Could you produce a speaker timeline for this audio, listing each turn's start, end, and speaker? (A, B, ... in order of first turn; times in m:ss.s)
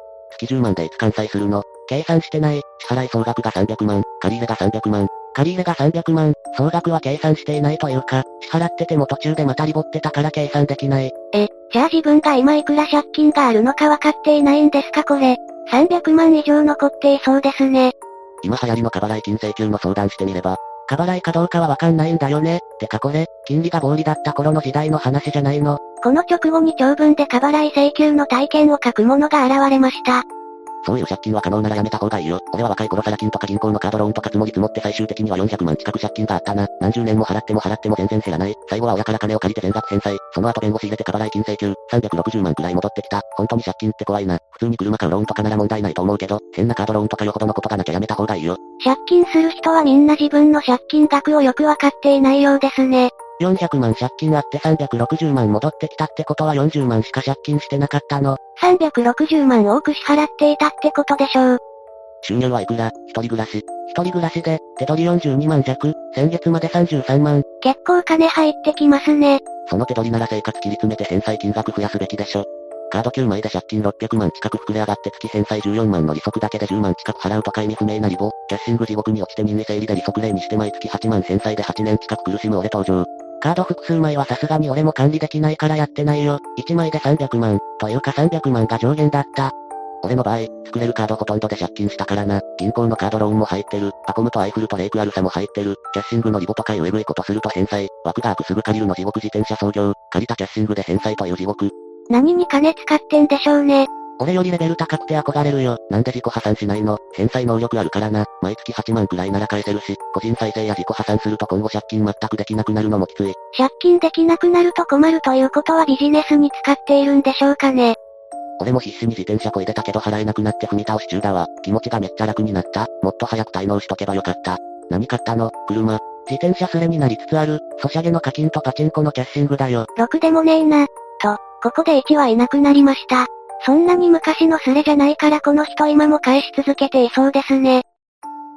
0:00.3-0:11.1 A
0:11.3-0:17.9 B
0:18.4-0:25.8 A
0:26.0-0:30.2 B
0:30.8-0:48.6 A
0:48.8-0:53.1 B
0:53.4-0:58.4 A
0:58.6-1:01.6 B
1:02.2-1:07.4 A
1:07.6-1:09.4 B
1:09.6-1:41.7 A
1:42.1-1:43.9 B
1:44.2-1:53.4 A
1:53.5-1:58.0 B
1:58.6-2:09.9 A
2:10.0-2:17.8 B